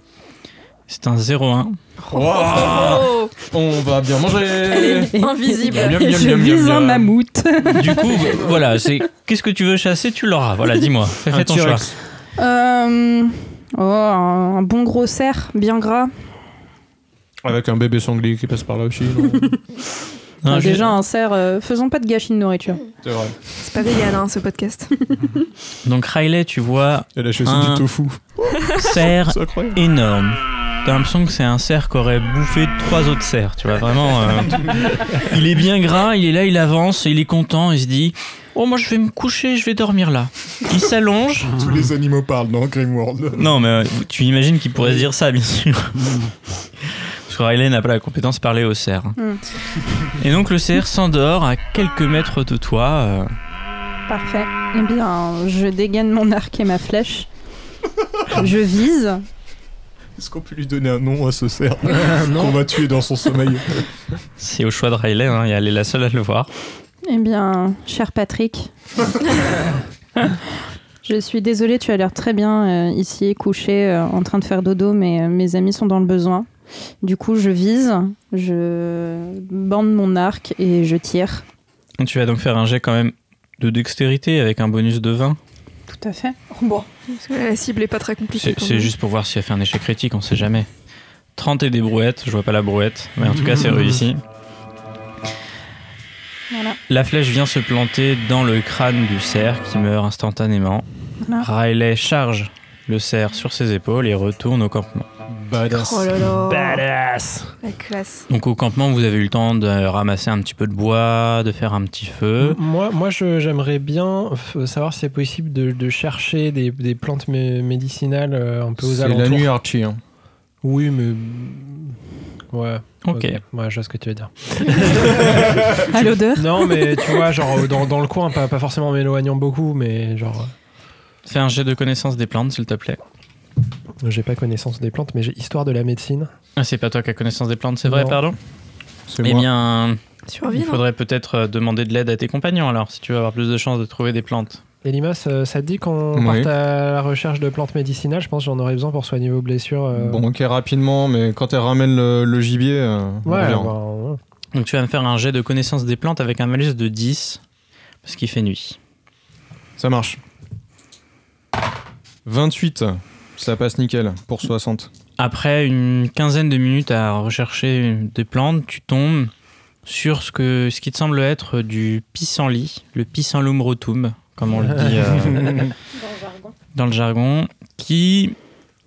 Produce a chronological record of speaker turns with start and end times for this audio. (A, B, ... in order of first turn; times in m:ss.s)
0:00.9-0:01.8 A
0:02.1-0:05.1 B
0:02.1-0:03.3 C
0:04.7-0:08.2 D
0:04.8-0:06.0 C
0:05.6-0:07.1 B
0:07.6-0:11.9 A
0:11.3-0:11.9 B
0:12.4-0:16.1 D
0:17.4-0:19.5 B
0:20.4-0:21.0 A
0:20.4-0:22.8 D
0:23.0-0:23.4 B
0:23.6-0:24.9 C
0:25.8-0:27.8 A
0:27.2-0:29.8 B
0:28.7-0:41.6 A
0:41.6-0:43.6 B
0:43.4-0:49.2 A
0:50.0-0:53.3 A
0:54.1-0:57.3 D
0:58.3-0:59.2 D
1:00.2-1:03.9 B
1:01.9-1:02.6 E
1:04.4-1:06.5 A
1:07.0-1:08.7 D
1:11.0-1:16.5 D
1:17.0-1:21.4 D
1:22.0-1:25.4 A
1:25.9-1:26.9 D
1:27.1-1:28.9 C
1:28.4-1:30.7 A
1:31.4-1:34.2 A
1:33.2-1:34.0 E
1:36.5-1:36.8 D
1:36.9-1:40.8 A
1:41.4-1:45.1 A
1:45.3-1:46.3 B
1:45.7-1:46.8 C
1:46.3-1:47.6 E
1:47.6-1:48.2 C
1:48.3-1:52.6 A
1:52.4-1:59.5 E
1:58.8-2:00.0 B
2:00.6-2:02.0 E
2:02.5-2:05.8 E
2:03.0-2:03.4 A
2:05.8-2:07.2 D
2:06.3-2:10.5 E
2:11.2-2:13.0 A
2:14.0-2:16.3 E
2:16.6-2:18.4 A
2:17.8-2:18.2 E
2:19.1-2:19.4 B
2:19.2-2:24.6 A
2:20.3-2:20.8 C
2:24.8-2:30.2 E
2:26.1-2:26.5 B
2:29.9-2:33.7 B
2:33.2-2:34.2 E
2:34.5-2:37.4 A
2:38.0-2:38.8 A
2:39.8-2:40.2 B
2:42.2-2:44.9 B
2:45.2-2:49.3 A
2:49.8-2:55.7 A
2:54.5-2:55.0 E
2:56.0-2:56.5 D
2:56.7-2:58.4 A